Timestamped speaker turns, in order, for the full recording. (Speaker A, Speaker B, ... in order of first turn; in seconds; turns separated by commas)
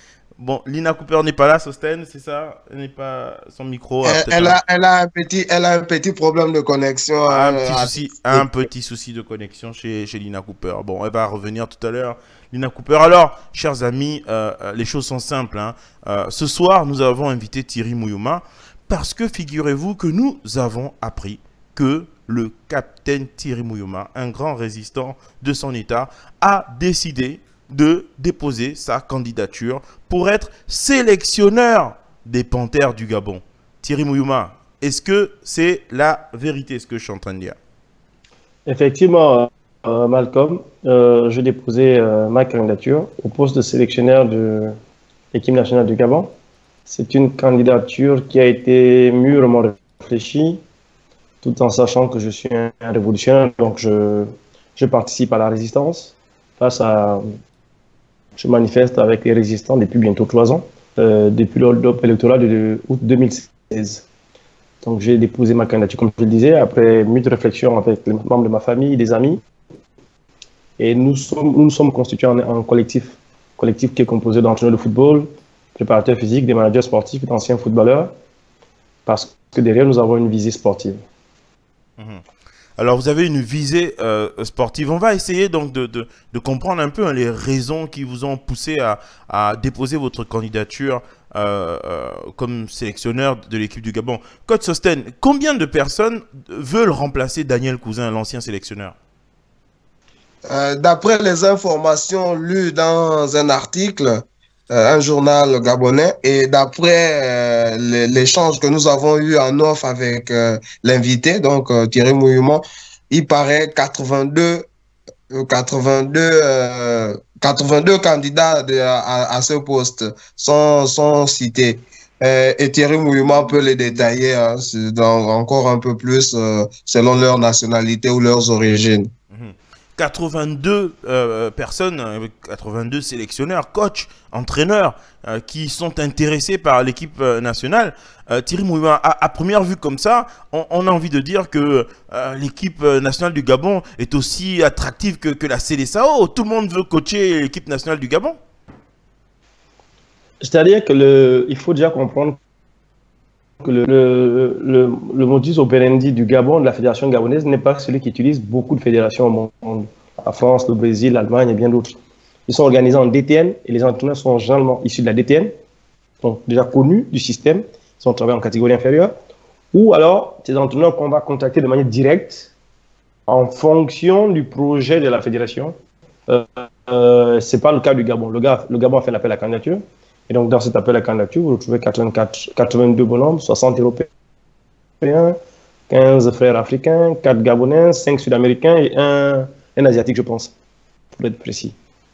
Speaker A: 0.4-4.6, Speaker B: 4.0-8.5, Speaker A: 7.3-37.6, Speaker C: 38.7-44.8, Speaker C: 45.3-46.3, Speaker C: 46.9-50.6, Speaker C: 51.4-57.2, Speaker C: 58.4-64.0, Speaker C: 64.8-69.4, Speaker C: 70.8-78.1, Speaker C: 79.1-81.0, Speaker A: 82.8-99.0, Speaker B: 100.5-114.7, Speaker B: 115.3-129.1, Speaker A: 129.3-148.4, Speaker C: 150.4-152.4, Speaker C: 153.6-165.5, Speaker C: 166.2-169.1, Speaker C: 169.7-172.5, Speaker C: 173.3-175.8, Speaker C: 176.3-184.1, Speaker C: 185.0-185.4, Speaker C: 185.9-190.5, Speaker C: 191.1-191.8